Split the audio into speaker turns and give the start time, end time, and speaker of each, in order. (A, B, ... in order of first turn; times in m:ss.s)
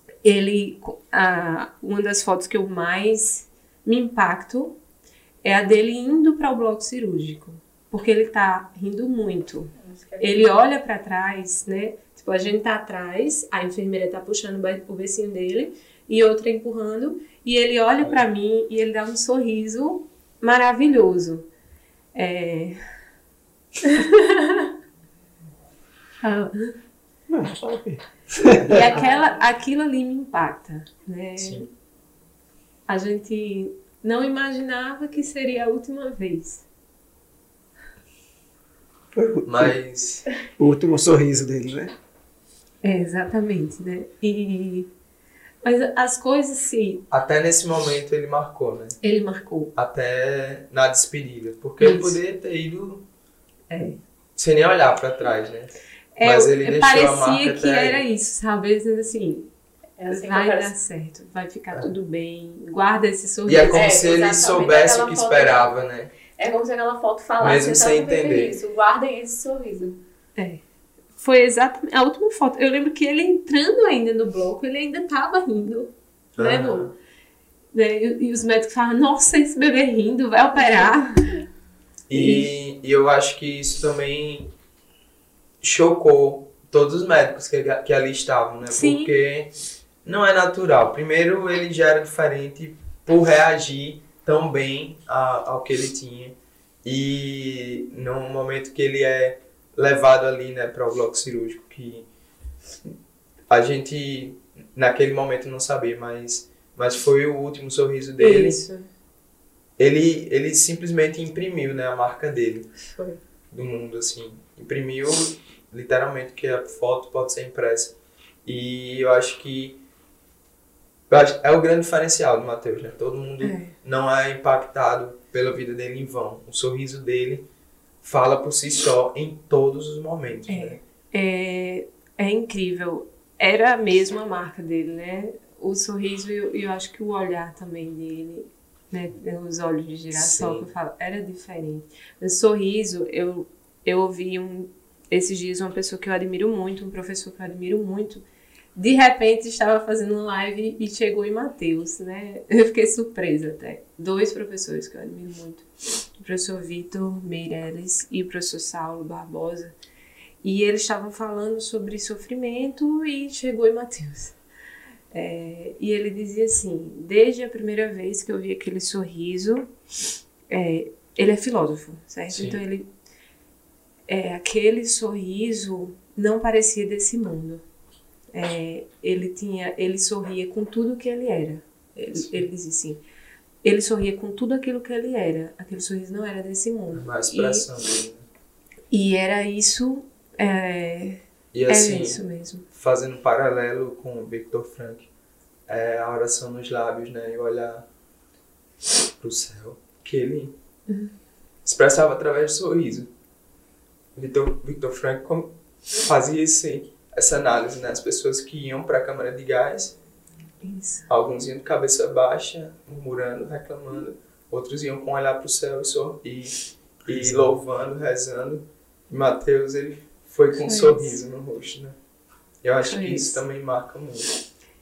0:00.2-0:04.8 A
0:05.4-0:21.4 A
0:09.8-0:10.5 B
0:22.1-0:22.8 A
0:23.8-0:24.7 A
0:26.2-0:26.8 A
0:27.3-0:28.8 C
0:28.7-0:31.7 A
0:31.4-0:31.7 D
0:32.9-0:36.6 A
0:39.1-0:39.8 C
0:39.4-0:40.2 D
0:40.6-0:41.9 C
0:42.8-0:44.9 A
0:45.6-0:47.0 A
0:47.1-0:49.0 D
0:49.0-0:49.7 A
0:49.8-0:53.0 D
0:51.8-0:52.2 A
0:53.7-0:54.0 A
0:54.4-0:58.0 D
0:56.2-0:59.5 A
1:00.0-1:00.7 B
1:00.1-1:03.8 A
1:03.4-1:06.1 D
1:03.7-1:05.7 B
1:06.3-1:10.0 B
1:07.4-1:08.6 D
1:10.4-1:10.6 A
1:11.2-1:16.9 A
1:16.4-1:16.9 D
1:17.7-1:21.4 A
1:22.1-1:24.5 D
1:22.1-1:22.5 A
1:25.6-1:29.5 D
1:28.7-1:29.1 A
1:30.0-1:42.1 D
1:43.5-1:48.6 D
1:48.2-1:48.9 A
1:49.8-1:52.7 D
1:52.9-1:53.2 A
1:53.5-1:59.8 D
2:01.1-2:07.5 D
2:03.4-2:03.7 A
2:08.0-2:10.8 D
2:10.5-2:28.2 A
2:20.1-2:20.7 D
2:28.8-2:39.7 A
2:40.4-2:44.4 A
2:45.1-2:49.7 A
2:50.5-2:52.9 A
2:52.3-2:52.6 D
2:54.1-2:57.6 A
2:58.3-3:03.0 A
3:03.6-3:07.7 A
3:06.9-3:08.2 D
3:08.9-3:12.6 A
3:11.5-3:15.1 D
3:15.7-3:17.9 D
3:19.2-3:20.5 D
3:20.9-3:21.1 A
3:21.6-3:23.1 D
3:24.1-3:30.0 D
3:30.6-3:31.1 A
3:31.1-3:42.0 D
3:37.1-3:37.4 C
3:40.5-3:41.2 A
3:42.6-3:44.3 D
3:42.8-3:43.4 A